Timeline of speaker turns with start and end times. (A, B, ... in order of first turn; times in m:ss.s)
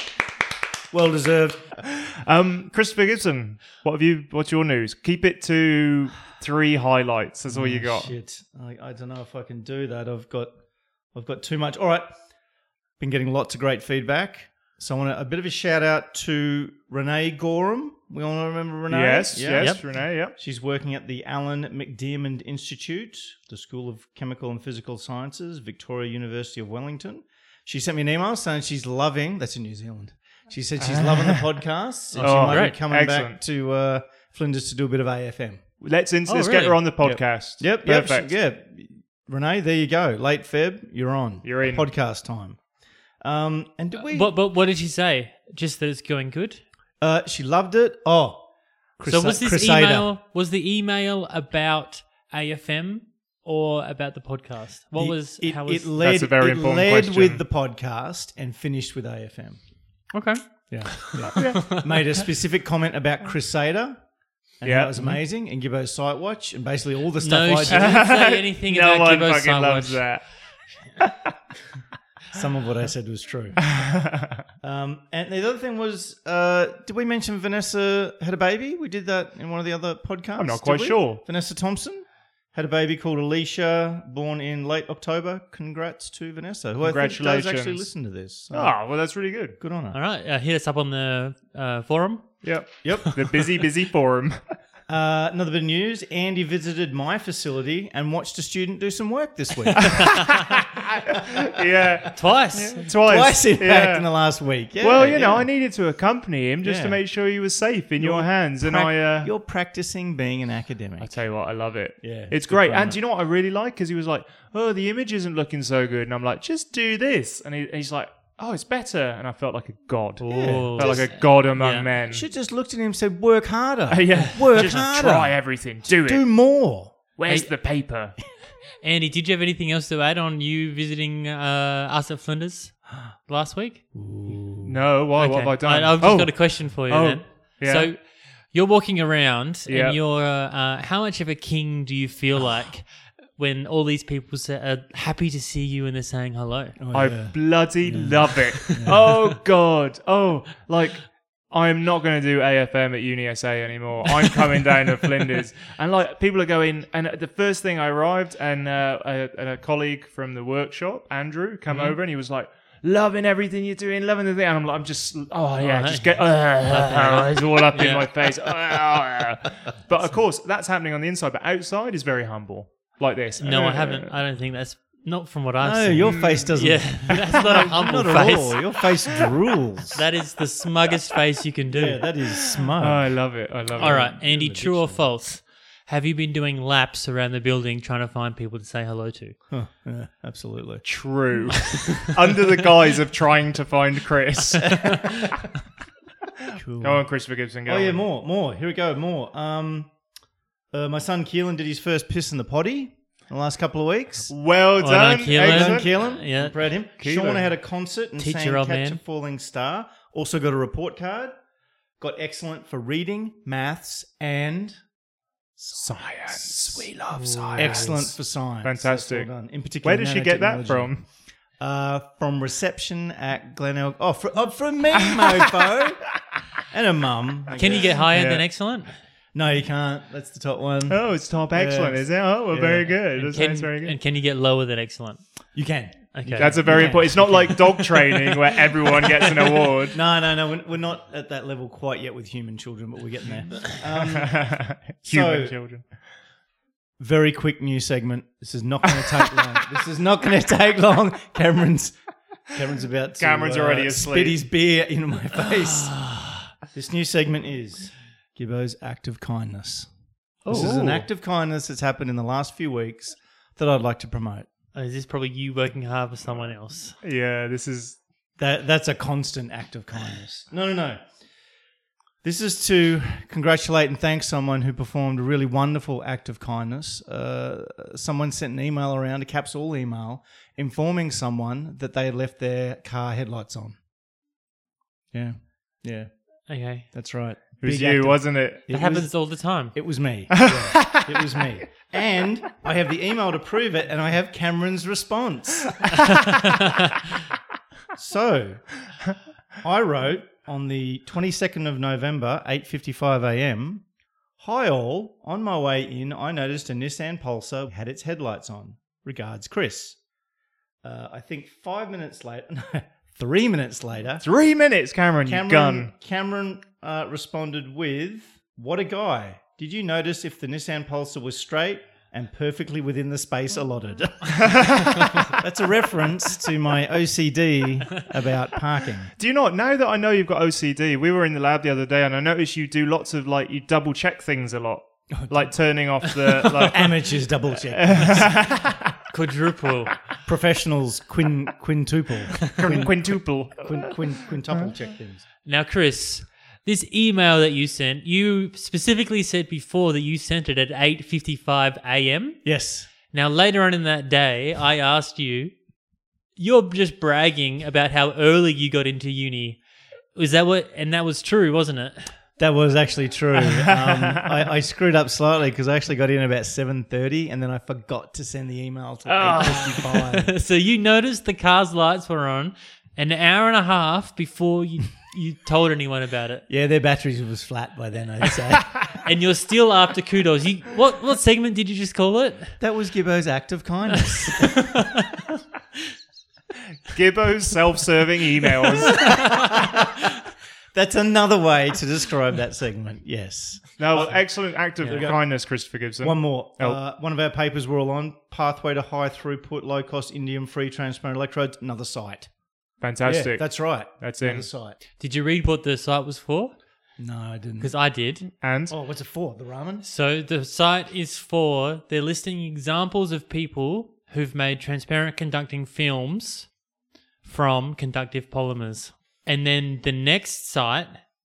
0:00.9-0:01.8 A
0:01.9-0:08.1 B
0:07.5-0:10.6 A
0:11.1-0:12.2 A
0:13.0-0:35.6 A
0:18.9-0:20.4 B
0:30.8-0:31.6 B
0:32.1-0:32.8 C
0:32.2-0:33.4 B
0:35.8-0:38.3 B
0:36.3-0:36.9 C
0:37.0-0:42.6 A
0:41.4-0:41.9 B
0:43.2-0:44.3 A
0:44.1-0:46.6 C
0:47.0-0:50.1 A
0:49.1-0:56.0 C
0:55.0-0:59.6 A
0:56.0-0:57.4 B
1:00.1-1:02.0 C
1:00.7-1:04.0 A
1:01.4-1:01.7 B
1:04.6-1:08.1 A
1:04.6-1:05.1 B
1:07.2-1:10.3 C
1:07.7-1:10.3 B
1:12.3-1:13.8 A
1:13.8-1:14.4 B
1:14.6-1:28.9 A
1:20.4-1:21.2 B
1:26.8-1:27.9 B
1:28.5-1:29.6 B
1:29.6-1:30.0 A
1:29.9-1:32.9 C
1:32.4-1:34.4 B
1:32.8-1:33.2 A
1:34.9-1:40.5 A
1:40.0-1:44.1 B
1:42.1-1:42.9 C
1:42.9-1:45.5 A
1:44.8-1:49.3 B
1:46.6-1:47.0 A
1:48.0-1:51.2 A
1:51.0-2:02.2 B
1:52.0-1:53.0 A
2:00.2-2:01.9 C
2:00.2-2:01.3 A
2:02.0-2:07.0 A
2:03.9-2:06.3 B
2:07.2-2:08.2 B
2:08.8-2:14.0 C
2:14.0-2:14.8 A
2:14.6-2:17.9 B
2:15.2-2:18.0 C
2:18.5-2:26.8 C
2:19.7-2:20.0 B
2:26.8-2:29.1 A
2:26.9-2:54.1 B
2:28.0-2:29.0 C
2:41.7-2:42.0 C
2:45.6-2:48.3 C
2:53.4-2:58.9 C
2:55.6-3:00.0 A
2:56.1-2:56.5 B
2:57.4-2:57.7 B
2:59.9-3:02.1 C
3:01.7-3:05.1 A
3:02.8-3:04.2 B
3:03.8-3:09.4 C
3:09.5-3:11.0 A
3:10.8-3:14.9 B
3:14.7-3:15.1 A
3:16.6-3:17.1 A
3:16.8-3:18.0 B
3:17.6-3:19.9 A
3:20.7-3:24.3 A
3:24.3-3:25.9 B
3:24.8-3:26.6 C
3:25.4-3:31.3 A
3:27.0-3:27.5 B
3:28.2-3:29.0 C
3:32.0-3:34.8 A
3:35.6-3:36.9 A
3:35.7-3:38.0 B
3:37.2-3:38.1 C
3:37.6-3:46.1 A
3:38.6-3:39.3 B
3:39.8-3:41.0 B
3:46.7-3:48.0 A
3:47.6-3:48.9 C
3:48.1-3:48.4 B
3:49.3-3:52.9 A
3:50.9-3:54.0 B
3:53.2-3:55.3 C
3:55.6-3:58.2 A
3:56.1-3:57.5 C
3:56.4-4:00.0 B
3:59.9-4:05.6 A
4:04.2-4:05.9 B
4:07.0-4:12.0 A
4:12.5-4:16.1 A
4:13.2-4:14.4 B
4:15.9-4:16.4 C
4:16.7-4:19.9 A
4:20.5-4:21.0 C
4:20.5-4:24.5 A
4:20.5-4:21.0 B
4:24.8-4:27.0 C
4:27.0-4:28.0 B
4:28.4-4:31.0 A
4:32.2-4:43.8 A
4:45.1-4:56.0 A
4:46.5-4:46.9 C
4:47.6-4:48.7 B
4:48.7-4:49.8 C
4:50.3-4:51.1 B
4:58.0-4:58.7 A
4:59.6-5:03.8 A
5:04.4-5:10.0 A
5:10.8-5:14.3 A
5:14.2-5:15.9 B
5:15.2-5:29.1 A
5:24.4-5:25.1 B
5:29.2-5:37.2 B
5:35.1-5:35.6 A
5:36.5-5:38.5 A
5:37.7-5:38.8 B
5:39.1-5:40.0 C
5:40.2-5:45.2 A
5:42.6-5:44.0 B
5:45.4-5:52.5 C
5:52.4-5:52.9 A
5:53.1-5:55.5 C
5:56.4-5:59.6 C
6:00.2-6:02.1 C
6:02.4-6:10.3 A
6:03.6-6:04.3 B
6:09.1-6:09.4 B
6:09.2-6:16.4 C
6:16.5-6:18.9 A
6:18.9-6:22.6 C
6:22.6-6:24.9 A
6:24.2-6:25.2 C
6:26.9-6:29.0 B
6:28.9-6:29.9 A
6:30.7-6:42.3 A
6:33.8-6:36.8 B
6:34.8-6:35.1 C
6:42.8-6:44.5 B
6:43.0-6:44.8 A
6:45.0-6:46.5 C
6:47.0-6:47.7 A
6:47.6-6:48.3 C
6:48.4-6:48.7 B
6:48.7-6:49.8 A
6:49.8-6:56.5 C
6:57.2-7:01.0 C